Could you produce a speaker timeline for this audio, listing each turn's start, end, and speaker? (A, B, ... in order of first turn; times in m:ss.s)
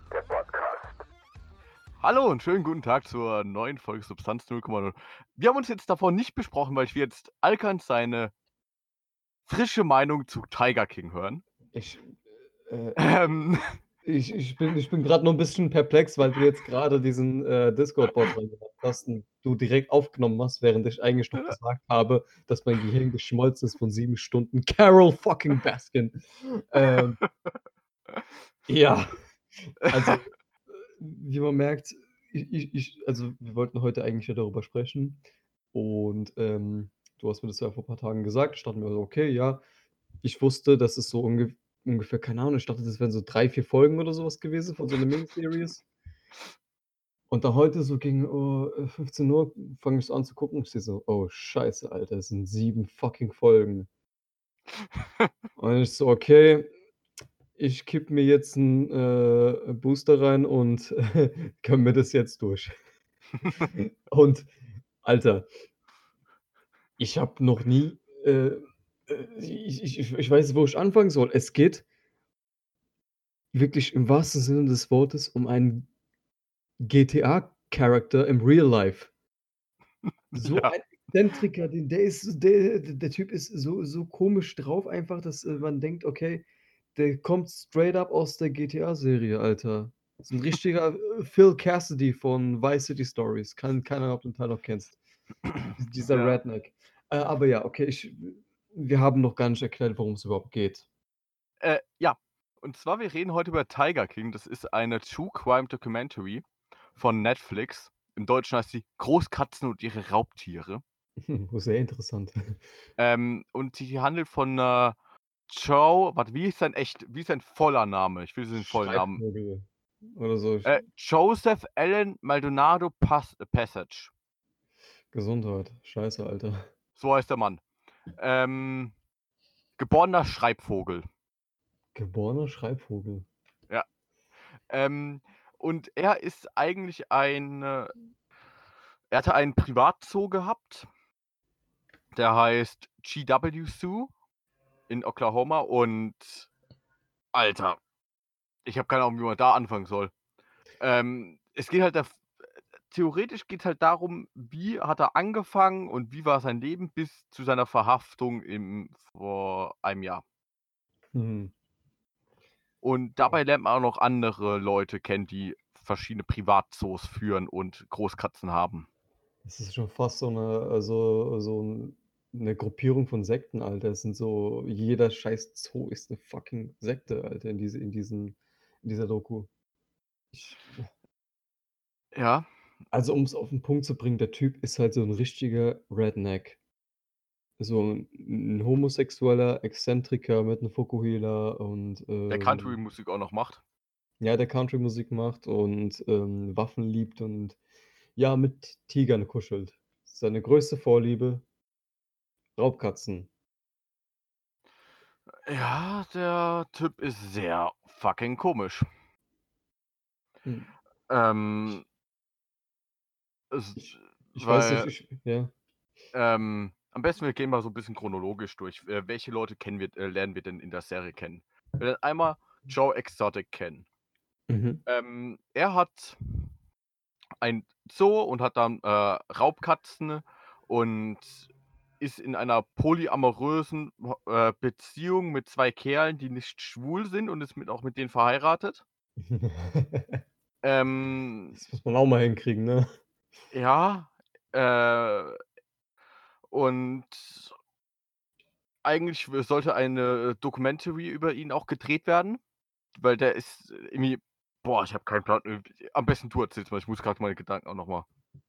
0:00.3-0:00.8 A
0:02.0-0:08.3 A
0:09.5-0:11.4 A
0:11.7-0:13.0 B
0:13.0-0:13.8 A
0:14.0-0:27.2 B
0:28.7-0:29.1 B
0:29.7-0:35.2 B
0:35.7-0:39.6 B
0:40.2-0:45.8 B
0:47.3-0:53.9 B
0:54.8-0:55.3 A
0:55.6-0:56.7 B
0:57.6-1:02.8 B
1:03.4-1:03.7 A
1:03.7-1:04.5 B
1:05.0-1:05.5 B
1:07.0-1:11.9 B
1:13.5-1:15.9 B
1:16.8-1:19.1 B
1:20.3-1:20.7 A
1:20.4-1:35.0 B
1:35.8-1:40.9 B
1:36.1-1:36.4 A
1:41.6-1:46.4 A
1:47.0-1:50.8 A
1:51.2-1:52.6 B
1:53.0-1:55.0 A
1:55.5-1:59.2 A
1:58.6-2:00.8 B
2:00.6-2:04.1 A
2:05.1-2:06.7 B
2:07.0-2:07.6 A
2:08.2-2:08.9 A
2:09.8-2:11.1 A
2:12.0-2:13.3 B
2:14.7-2:17.9 A
2:19.1-2:20.9 A
2:22.2-2:24.1 A
2:24.9-2:26.5 A
2:27.3-2:27.8 A
2:28.6-2:30.1 A
2:30.8-2:32.2 A
2:32.9-2:40.2 A
2:41.1-2:41.5 B
2:42.8-2:48.9 A
2:49.4-2:59.5 B
3:00.3-3:00.8 B
3:02.1-3:02.5 A
3:02.9-3:06.6 B
3:07.6-3:12.8 B
3:12.3-3:13.6 A
3:14.2-3:17.6 B
3:18.2-3:21.4 B
3:22.6-3:23.3 B
3:25.5-3:28.9 A
3:30.4-3:30.7 B
3:31.1-3:31.9 A
3:33.5-3:34.9 A
3:34.4-3:35.5 B
3:36.1-3:43.9 A
3:44.5-3:44.8 B
3:44.9-3:46.5 A
3:47.4-3:51.5 A
3:52.0-3:58.8 A
3:59.2-4:00.2 B
4:00.6-4:01.6 A
4:01.5-4:02.9 B
4:03.5-4:05.4 A
4:06.5-4:07.5 A
4:08.8-4:12.4 A
4:13.0-4:18.1 A